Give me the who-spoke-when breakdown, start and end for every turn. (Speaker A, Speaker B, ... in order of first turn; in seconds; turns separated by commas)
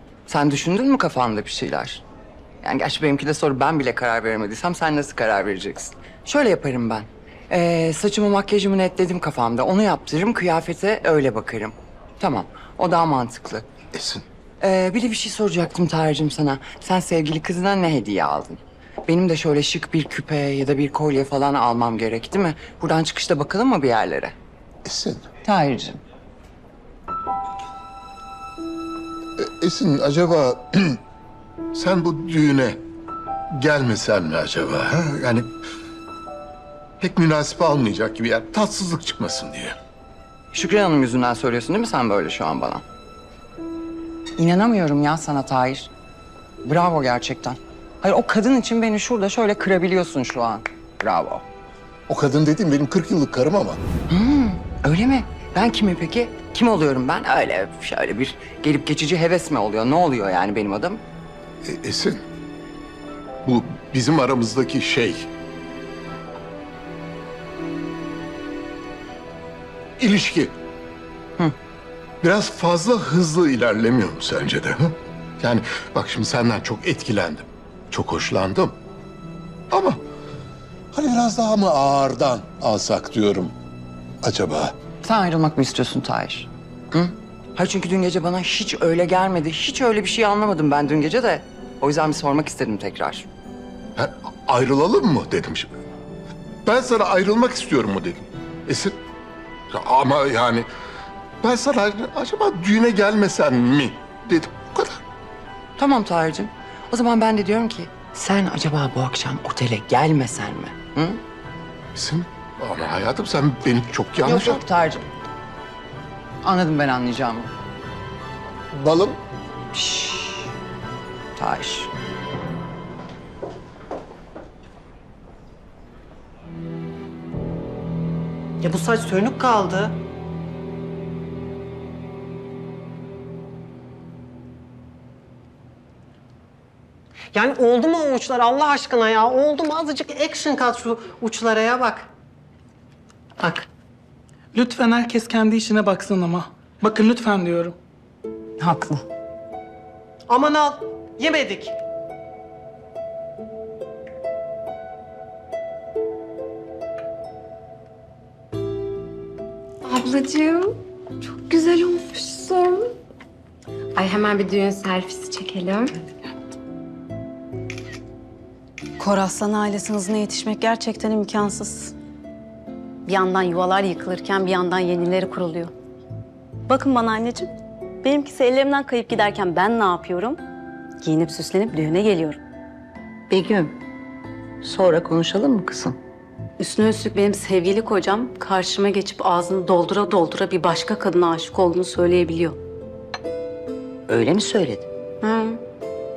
Speaker A: 0.3-2.0, Speaker A: 2.6-13.7, Speaker B: 13.9-14.2, Speaker A: 14.6-24.3, Speaker B: 24.9-25.3, Speaker A: 25.4-26.0, Speaker B: 29.4-31.0, Speaker B: 31.7-32.8, Speaker B: 33.5-35.5, Speaker B: 37.0-39.8, Speaker A: 40.5-42.8, Speaker A: 44.4-45.9, Speaker A: 46.6-51.4, Speaker B: 52.1-53.8, Speaker A: 54.1-61.0, Speaker B: 61.6-62.2, Speaker B: 63.4-65.3, Speaker B: 70.0-70.5, Speaker B: 72.2-78.8, Speaker B: 79.7-80.0, Speaker B: 80.9-83.5, Speaker B: 84.2-84.8, Speaker A: 85.0-93.3, Speaker B: 94.0-95.7, Speaker B: 96.7-99.0, Speaker B: 99.7-100.7, Speaker B: 101.4-105.0, Speaker A: 105.8-111.2, Speaker B: 112.0-114.6, Speaker A: 114.2-115.0, Speaker A: 116.4-117.5, Speaker B: 118.7-119.2, Speaker A: 119.7-120.5, Speaker A: 121.4-121.9, Speaker C: 128.6-130.0, Speaker C: 137.3-142.1, Speaker C: 143.4-143.7, Speaker D: 144.6-147.7, Speaker C: 150.3-151.8, Speaker E: 159.8-162.9, Speaker E: 163.9-165.9, Speaker F: 169.0-171.9, Speaker F: 173.1-175.7, Speaker F: 176.7-177.5, Speaker F: 178.0-180.4, Speaker F: 181.0-182.4, Speaker G: 183.3-183.8, Speaker G: 184.6-186.0, Speaker F: 186.6-192.6, Speaker G: 194.1-194.9, Speaker F: 195.2-195.6